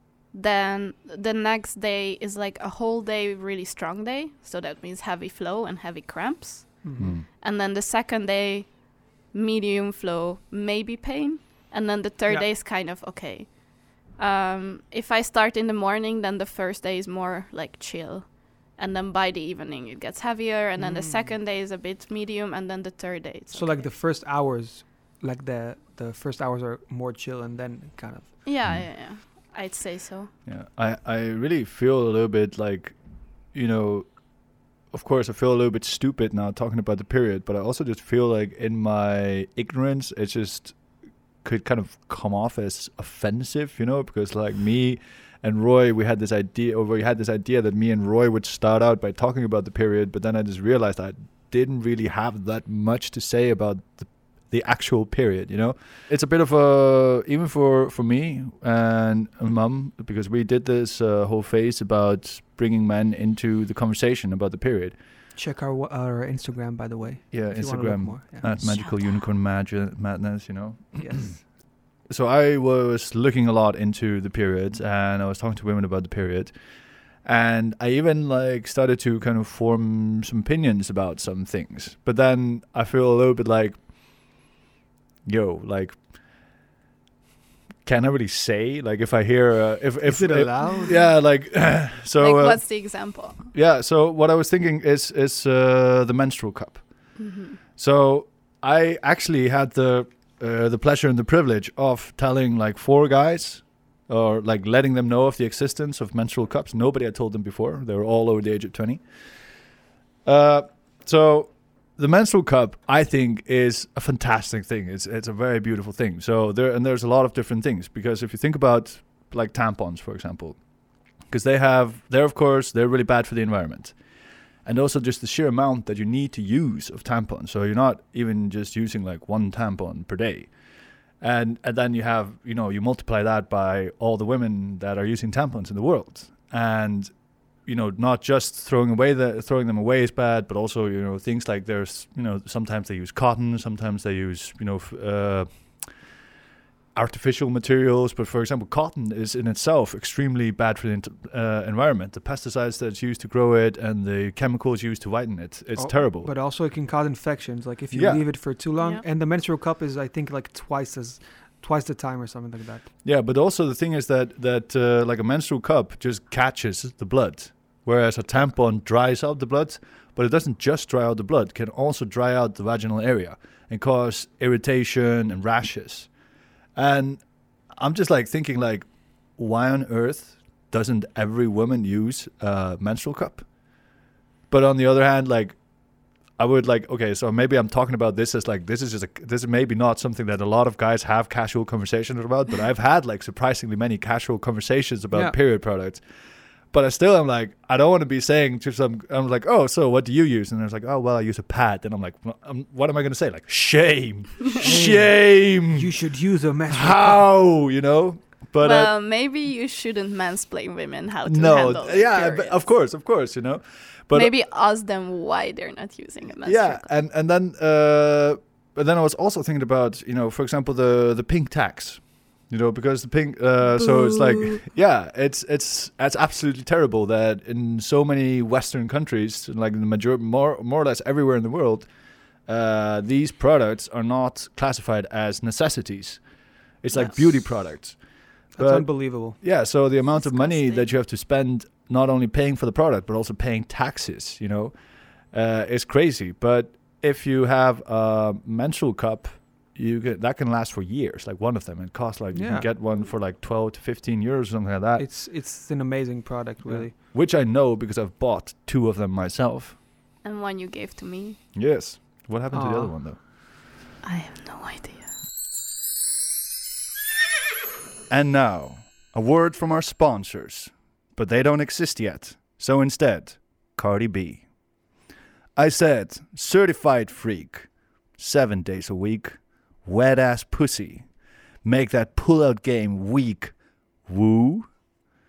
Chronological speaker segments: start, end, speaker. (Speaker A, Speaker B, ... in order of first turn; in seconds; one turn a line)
Speaker A: 0.3-23.9
Speaker B: 6.8-7.2
Speaker C: 7.0-7.3
Speaker B: 20.8-21.4
Speaker B: 23.5-28.3
Speaker A: 28.4-30.3
Speaker C: 30.4-65.0
Speaker B: 65.4-68.6
Speaker C: 67.3-76.6
Speaker A: 68.5-69.3
Speaker B: 71.0-71.3
Speaker C: 77.2-84.4
Speaker C: 85.2-86.4
Speaker C: 87.8-97.3
Speaker B: 90.0-91.0
Speaker A: 90.7-93.5
Speaker A: 97.2-97.6
Speaker C: 97.8-109.6
Speaker C: 110.2-120.6
Speaker C: 121.2-124.0
Speaker C: 124.7-130.6
Speaker C: 131.2-146.1
Speaker C: 146.9-156.3
Speaker B: 155.8-162.9
Speaker C: 157.9-158.5
Speaker C: 163.0-176.1
Speaker C: 176.8-183.5
Speaker C: 184.5-196.1
Speaker B: 195.1-195.4
Speaker C: 196.7-206.0
Speaker B: 204.6-207.3
Speaker C: 206.7-208.9
Speaker A: 208.6-212.7
Speaker C: 211.2-214.3
Speaker A: 214.1-217.0
Speaker C: 216.4-255.1
Speaker A: 224.3-224.6
Speaker A: 236.9-237.2
Speaker B: 238.5-239.4
Speaker A: 240.1-240.9
Speaker B: 252.3-252.7
Speaker B: 255.0-256.9
Speaker C: 256.6-259.8
Speaker A: 260.2-261.4
Speaker C: 261.5-263.2
Speaker B: 262.5-263.0
Speaker A: 264.0-265.2
Speaker C: 268.1-274.5
Speaker C: 275.6-284.8